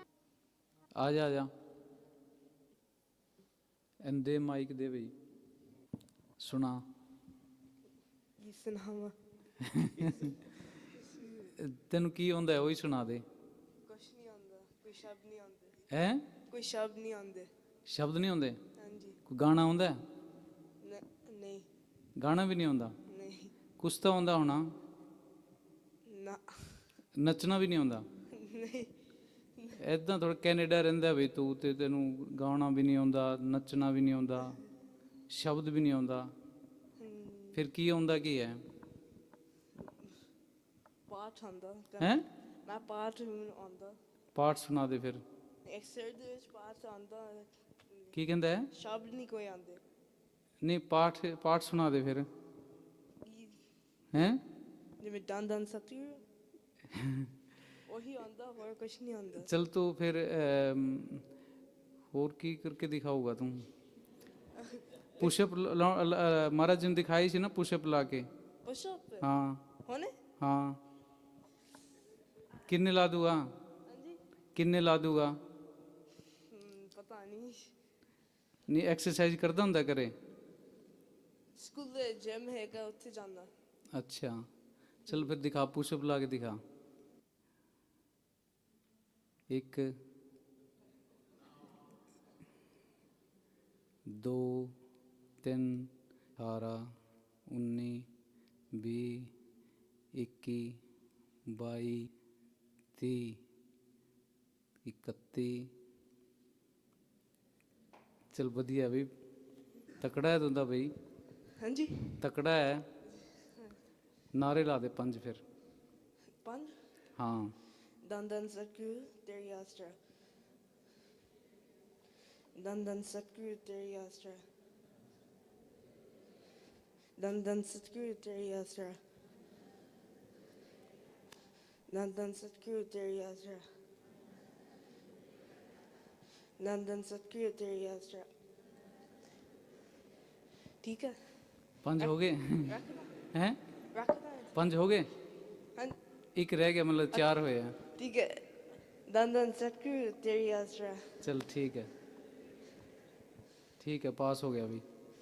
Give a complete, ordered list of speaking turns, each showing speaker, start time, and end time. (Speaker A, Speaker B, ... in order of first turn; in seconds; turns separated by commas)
Speaker A: 1.0-1.5, Speaker A: 4.0-5.1, Speaker A: 6.4-6.8, Speaker B: 8.4-9.2, Speaker A: 9.6-10.4, Speaker B: 10.0-10.3, Speaker B: 10.9-11.5, Speaker A: 11.5-13.2, Speaker B: 13.8-15.8, Speaker A: 15.9-16.2, Speaker B: 16.5-17.5, Speaker A: 17.9-18.6, Speaker B: 18.8-19.2, Speaker A: 19.2-20.0, Speaker B: 20.8-21.7, Speaker A: 22.2-22.9, Speaker B: 23.1-23.5, Speaker A: 23.8-24.7, Speaker B: 26.1-26.9, Speaker A: 27.2-28.1, Speaker B: 28.3-28.9, Speaker A: 29.8-34.6, Speaker A: 35.3-36.3, Speaker B: 37.0-37.6, Speaker A: 37.5-38.6, Speaker B: 41.1-44.0, Speaker A: 44.3-45.2, Speaker B: 45.6-48.1, Speaker A: 48.1-48.7, Speaker B: 48.7-49.8, Speaker A: 50.6-52.3, Speaker B: 53.2-53.6, Speaker A: 54.1-54.4, Speaker B: 55.0-56.2, Speaker A: 56.9-57.3, Speaker B: 57.9-59.5, Speaker A: 59.4-61.2, Speaker A: 62.1-63.7, Speaker B: 64.5-65.3, Speaker A: 65.2-68.3, Speaker B: 68.6-69.3, Speaker A: 69.2-69.7, Speaker B: 69.8-70.2, Speaker A: 70.4-70.8, Speaker A: 72.7-73.4, Speaker B: 73.9-74.2, Speaker A: 74.5-75.4, Speaker B: 76.5-77.7, Speaker A: 78.7-80.1, Speaker B: 81.5-83.5, Speaker A: 83.9-84.5, Speaker A: 85.0-86.6, Speaker A: 89.5-89.9, Speaker A: 94.1-94.8, Speaker A: 95.4-96.9, Speaker A: 97.5-98.1, Speaker A: 98.7-99.3, Speaker A: 100.1-100.8, Speaker A: 101.5-102.1, Speaker A: 102.9-103.4, Speaker A: 104.8-105.7, Speaker A: 108.3-109.1, Speaker A: 109.9-110.9, Speaker B: 111.6-112.2, Speaker A: 112.2-112.8, Speaker B: 113.2-113.8, Speaker A: 114.3-115.4, Speaker B: 116.4-116.8, Speaker A: 117.2-117.5, Speaker B: 118.0-120.0, Speaker B: 122.5-124.4, Speaker B: 127.2-129.0, Speaker B: 131.9-133.6, Speaker B: 136.6-138.3, Speaker B: 140.8-141.2, Speaker A: 141.8-142.8, Speaker B: 142.6-143.2, Speaker A: 143.3-143.6, Speaker B: 143.9-144.5, Speaker A: 144.5-145.1, Speaker A: 146.3-147.8, Speaker B: 147.9-148.5, Speaker B: 149.1-151.2, Speaker A: 151.2-151.9, Speaker A: 153.8-154.8